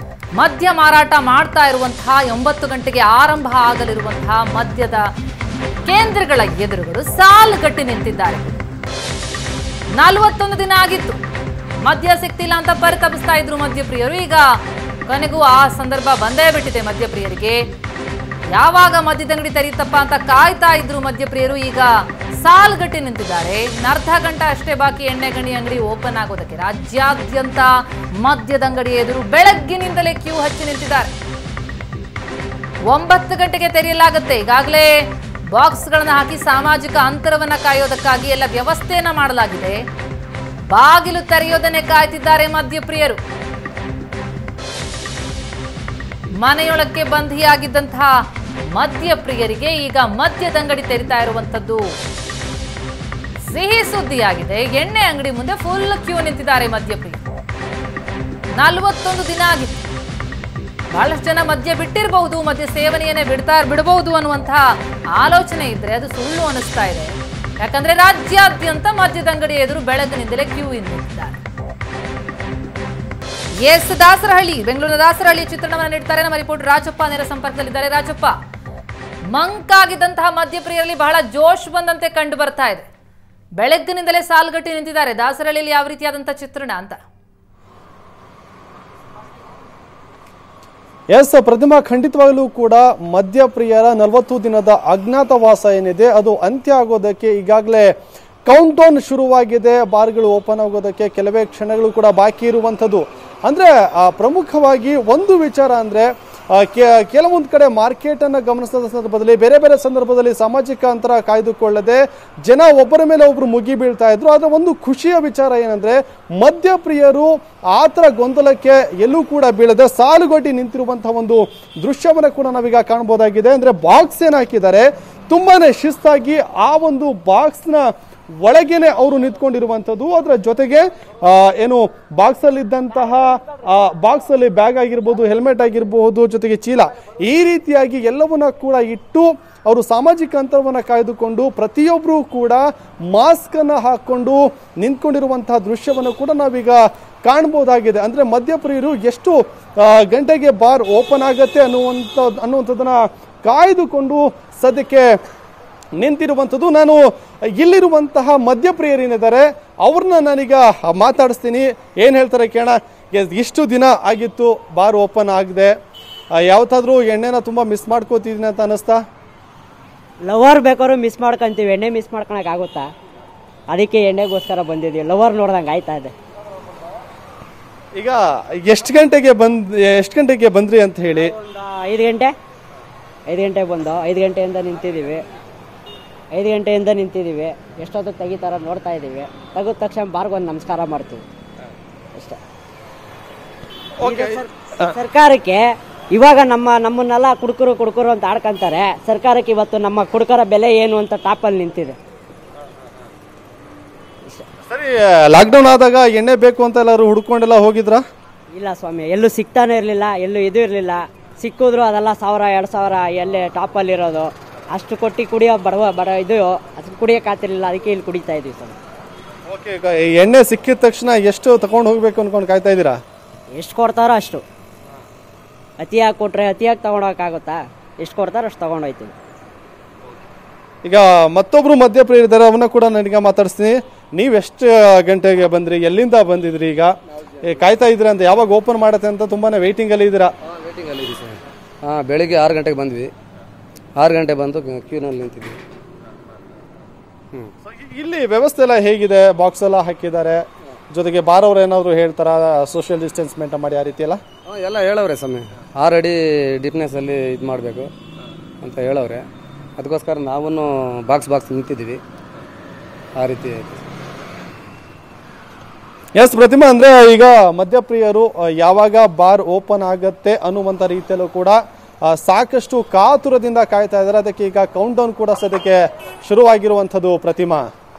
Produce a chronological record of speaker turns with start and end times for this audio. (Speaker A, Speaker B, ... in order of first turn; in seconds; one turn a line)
Speaker A: 0.4-5.1
Speaker A: 5.8-8.6
Speaker A: 9.9-11.2
Speaker A: 11.8-14.5
Speaker A: 15.1-17.6
Speaker A: 18.5-31.1
Speaker A: 32.9-34.9
Speaker A: 35.5-39.8
Speaker A: 40.7-43.2
Speaker A: 46.4-48.1
Speaker A: 48.7-51.9
Speaker A: 53.5-57.2
Speaker A: 58.5-59.7
Speaker A: 60.9-71.4
Speaker A: 73.6-78.3
Speaker A: 79.3-82.8
Speaker A: 83.6-87.0
Speaker B: 91.1-97.9
Speaker B: 98.5-127.9
Speaker B: 128.4-155.2
Speaker B: 156.0-165.7
Speaker B: 166.3-169.0
Speaker C: 170.2-172.9
Speaker C: 173.7-176.1
Speaker B: 177.9-181.3
Speaker C: 181.1-182.3
Speaker C: 183.3-185.2
Speaker C: 186.3-191.2
Speaker B: 194.0-194.9
Speaker C: 194.0-202.0
Speaker B: 204.7-208.0
Speaker C: 208.5-218.8
Speaker B: 219.5-223.0
Speaker C: 223.5-224.4
Speaker C: 225.8-229.1
Speaker B: 230.8-240.3
Speaker D: 240.5-243.1
Speaker D: 243.9-245.6
Speaker B: 247.6-254.2
Speaker D: 254.5-257.9
Speaker D: 258.6-259.3
Speaker D: 259.8-262.0
Speaker D: 263.1-263.9
Speaker B: 266.1-277.7